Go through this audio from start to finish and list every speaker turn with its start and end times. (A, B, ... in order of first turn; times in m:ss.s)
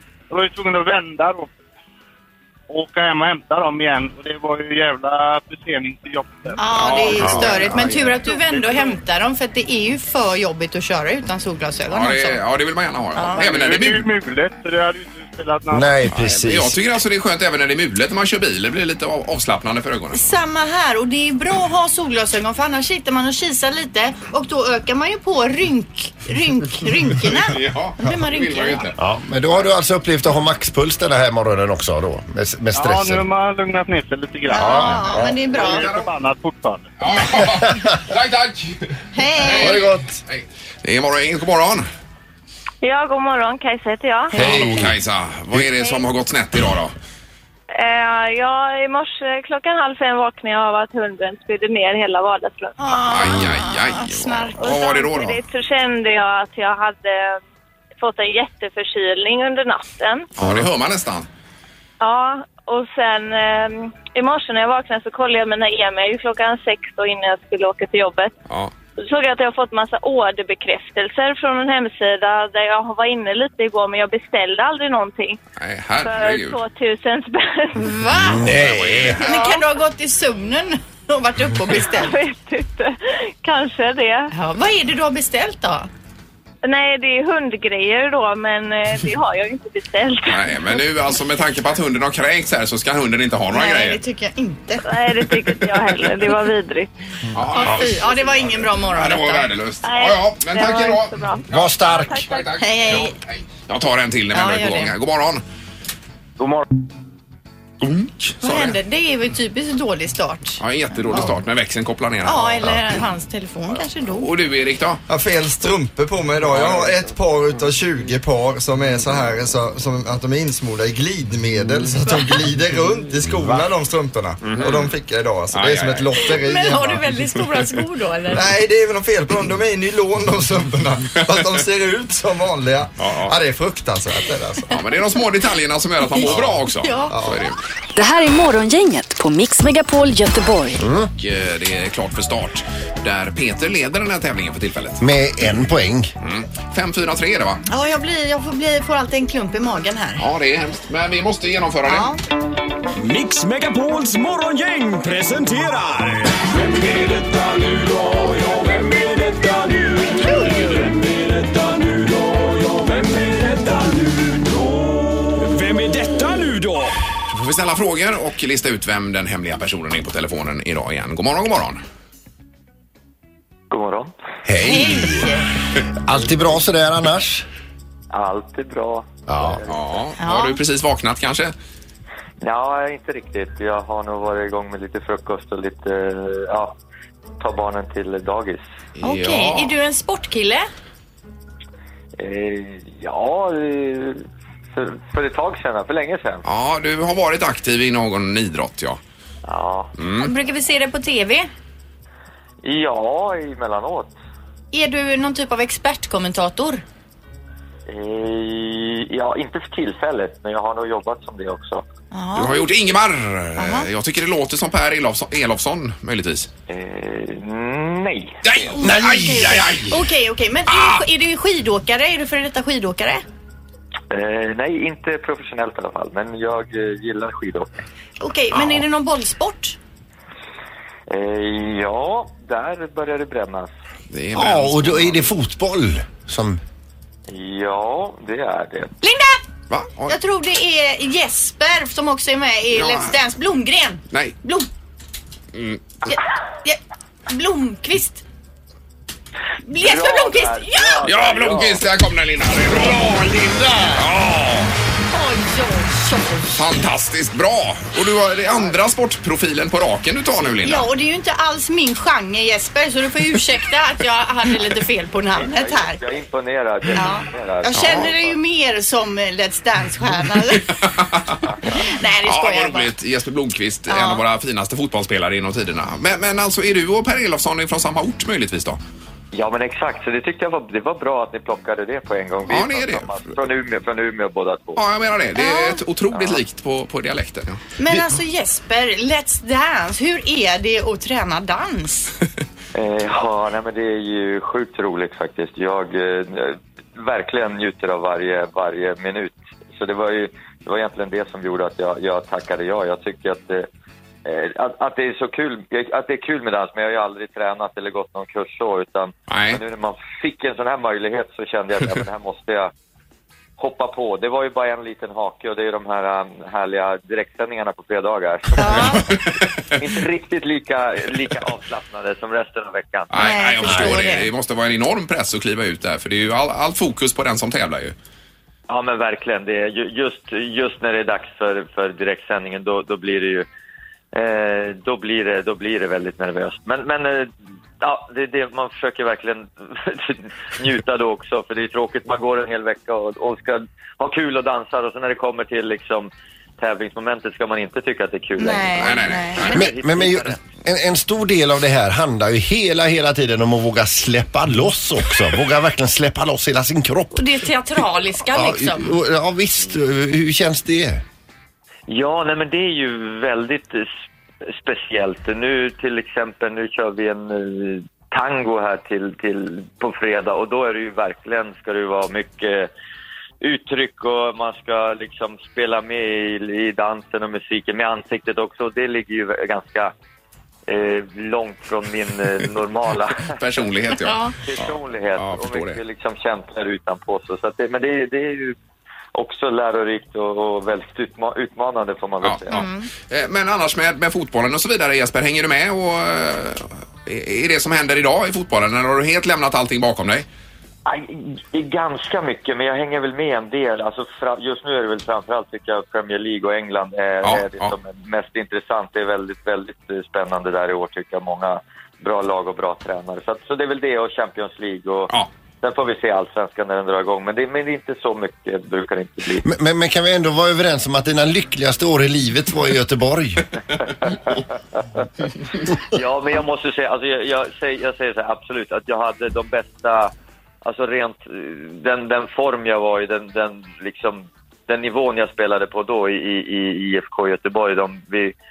0:00.3-0:01.5 A
0:02.7-0:06.8 A
0:06.6-0:12.4 B
0:06.7-0:08.6 C
0:07.2-0:07.5 D
0:11.9-0:14.1 C
0:13.2-0:13.5 B
0:13.4-0:16.0 A
0:15.7-0:16.8 D
0:16.1-0:20.2 C
0:20.1-0:28.8 B
0:27.3-0:29.0 C
0:29.0-0:33.2 D
0:32.7-0:36.9 A
0:34.5-0:35.9 B
0:34.6-0:35.3 D
0:35.5-0:36.0 C
0:37.0-0:41.9 C
0:39.1-0:39.8 B
0:39.6-0:40.2 D
0:42.8-0:44.4 E
0:44.3-0:46.9 C
0:44.4-0:44.9 D
0:47.7-0:52.8 E
0:52.8-0:55.0 B
0:53.0-0:55.4 C
0:54.6-0:57.4 E
0:58.0-1:00.3 E
1:00.4-1:01.3 C
1:02.0-1:08.3 E
1:09.0-1:15.4 E
1:15.6-1:16.6 C
1:16.0-1:17.8 E
1:17.8-1:18.5 B
1:18.2-1:19.2 D
1:18.4-1:19.3 C
1:19.2-1:22.1 B
1:19.3-1:19.6 E
1:21.9-1:24.3 E
1:24.3-1:25.9 B
1:26.6-1:30.5 E
1:30.3-1:34.0 C
1:33.5-1:34.8 B
1:34.8-1:36.9 E
1:35.3-1:36.1 C
1:37.3-1:45.4 C
1:37.5-1:39.5 B
1:39.8-1:42.6 E
1:41.5-1:42.2 D
1:42.6-1:43.1 B
1:44.3-1:44.9 B
1:47.8-1:48.8 C
1:48.4-1:51.3 B
1:50.6-1:52.9 C
1:52.2-1:54.3 B
1:53.8-1:55.0 C
1:55.1-2:07.0 F
1:56.4-1:56.9 C
2:04.4-2:04.9 C
2:05.5-2:06.2 C
2:06.4-2:08.5 B
2:08.3-2:14.8 F
2:13.0-2:13.3 C
2:14.7-2:17.6 C
2:16.1-2:17.1 B
2:16.2-2:17.4 F
2:18.0-2:20.8 G
2:20.8-2:21.1 D
2:21.2-2:25.0 C
2:25.0-2:26.1 D
2:26.2-2:27.6 C
2:27.7-2:30.2 B
2:30.2-2:32.1 C
2:31.8-2:32.2 B
2:33.0-2:36.3 H
2:37.0-2:39.9 H
2:40.2-2:40.7 B
2:41.0-2:44.3 H
2:45.3-2:47.0 H
2:47.3-2:51.8 C
2:53.7-2:54.1 I
2:54.5-2:55.3 D
2:54.6-2:55.5 B
2:56.0-2:57.4 D
2:58.1-2:59.8 I
2:59.3-2:59.6 D
2:59.7-3:01.5 C
3:00.2-3:00.6 B
3:02.4-3:06.8 I
3:07.4-3:08.6 I
3:09.0-3:09.7 C
3:09.0-3:10.7 B
3:12.2-3:16.4 I
3:16.4-3:19.0 C
3:19.4-3:19.9 I
3:20.0-3:20.3 C
3:20.2-3:21.5 B
3:22.6-3:24.1 I
3:24.7-3:26.8 B
3:27.9-3:31.8 I
3:32.1-3:32.6 B
3:32.3-3:36.5 C
3:33.6-3:33.9 B
3:36.7-3:38.6 I
3:38.4-3:40.0 C
3:38.8-3:43.2 B
3:40.7-3:41.0 C
3:44.1-3:47.7 I
3:48.2-3:49.8 B
3:51.1-3:53.7 I
3:54.1-3:55.3 C
3:54.3-3:56.6 D
3:57.3-3:58.9 I
3:59.0-3:59.4 B
3:59.7-4:00.2 C
4:00.1-4:04.7 B
4:02.7-4:03.2 C
4:05.5-4:05.8 C
4:06.1-4:08.2 B
4:09.6-4:11.0 B
4:09.7-4:11.8 I
4:11.0-4:13.4 C
4:13.9-4:14.7 C
4:15.1-4:16.5 B
4:16.5-4:20.9 C
4:20.6-4:26.0 B
4:25.3-4:28.3 I
4:27.0-4:30.8 B
4:27.8-4:28.1 C
4:30.7-4:31.4 C
4:31.6-4:32.9 B
4:32.2-4:38.8 C
4:33.9-4:34.2 B
4:39.3-4:44.8 I
4:42.5-4:43.3 C
4:44.8-4:47.6 C
4:45.4-4:45.8 B
4:46.1-4:46.4 I
4:47.8-4:52.1 B
4:52.7-5:03.7 I
5:04.2-5:12.7 I
5:09.3-5:09.6 C
5:13.6-5:19.0 I
5:18.6-5:19.0 B
5:18.6-5:19.7 C
5:19.8-5:23.4 I
5:23.1-5:28.0 C
5:23.2-5:24.3 B
5:28.7-5:33.5 I
5:34.1-5:50.4 I
5:48.4-5:49.6 B
5:48.8-5:49.7 C
5:49.5-5:57.3 D
5:57.1-5:58.9 B
5:58.3-6:01.0 D
6:01.9-6:03.9 I
6:04.5-6:12.7 I
6:13.4-6:19.9 I
6:20.7-6:23.4 I
6:23.3-6:25.8 C
6:24.0-6:24.3 B
6:24.4-6:28.6 I
6:29.1-6:32.7 I
6:32.2-6:40.2 C
6:32.5-6:32.9 B
6:40.8-6:59.5 I
6:47.2-6:47.8 C
6:59.4-7:03.4 D
7:04.0-7:04.4 I
7:05.9-7:18.3 I